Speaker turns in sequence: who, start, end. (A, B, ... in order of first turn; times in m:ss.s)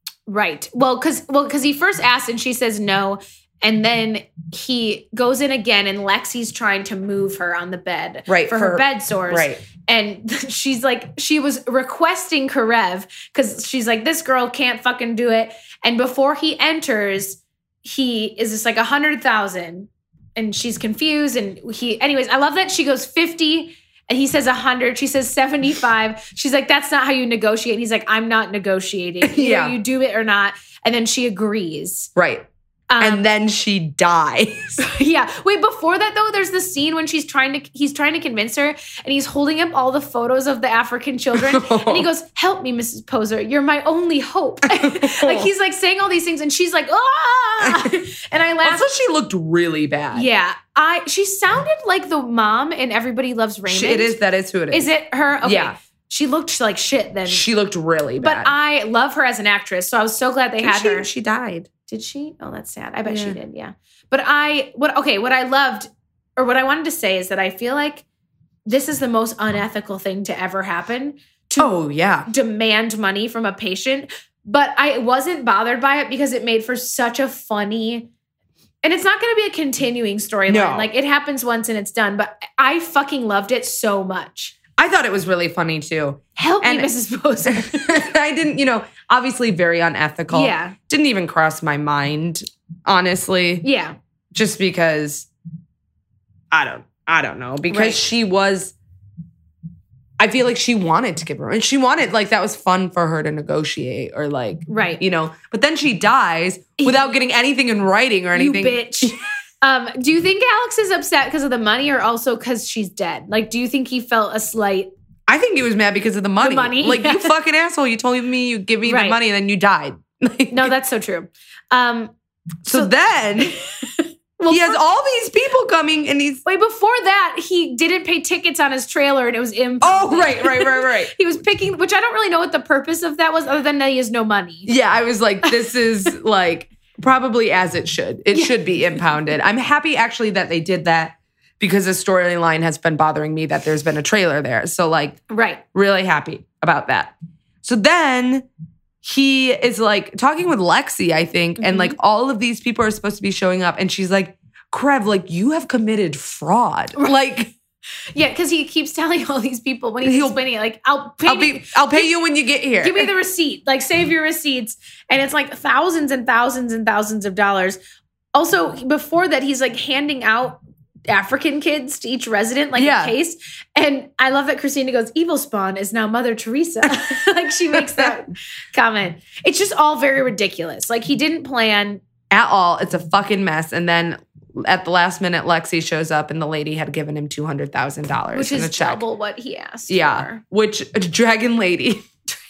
0:00.3-0:32.1 A
0:08.3-0:09.6 B
0:29.2-0:29.8 B
0:32.2-0:32.4 B
0:32.9-0:33.2 A
0:33.0-0:34.8 B
0:34.8-0:48.9 A
0:41.3-0:42.1 B
0:44.7-0:45.5 B
0:47.6-0:47.9 B
0:48.6-0:50.3 B
0:50.1-0:54.1 A
0:53.7-0:54.9 B
0:54.7-0:57.4 A
0:55.4-0:55.7 B
0:57.3-0:58.5 B
0:58.2-1:01.1 A
1:00.6-1:01.7 B
1:01.9-1:08.0 A
1:03.0-1:03.4 B
1:08.6-1:11.7 A
1:11.6-1:12.3 B
1:12.3-1:18.1 A
1:18.8-1:24.5 A
1:20.5-1:20.9 B
1:24.8-1:26.9 B
1:26.4-1:28.1 A
1:27.4-1:33.6 B
1:30.3-1:30.8 A
1:33.6-1:34.0 A
1:34.3-1:35.3 B
1:36.5-1:38.7 B
1:37.7-1:38.0 A
1:40.2-1:49.1 B
1:44.7-1:45.0 A
1:46.8-1:47.1 A
1:48.3-1:54.9 A
1:55.3-2:00.7 B
1:56.4-1:57.3 A
1:58.8-1:59.2 A
2:00.5-2:02.1 A
2:02.6-2:03.6 B
2:02.7-2:04.8 A
2:04.5-2:06.4 B
2:06.4-2:14.7 A
2:09.8-2:11.2 B
2:14.6-2:25.2 B
2:25.3-2:25.6 A
2:25.7-2:28.5 B
2:29.0-2:37.5 B
2:31.6-2:31.9 A
2:38.1-2:42.1 A
2:40.0-2:40.4 B
2:41.2-2:43.1 B
2:42.8-2:47.8 A
2:48.3-3:02.0 A
2:52.8-2:53.1 B
2:57.7-2:58.1 B
3:02.3-3:09.0 B
3:08.3-3:10.4 A
3:09.9-3:12.1 B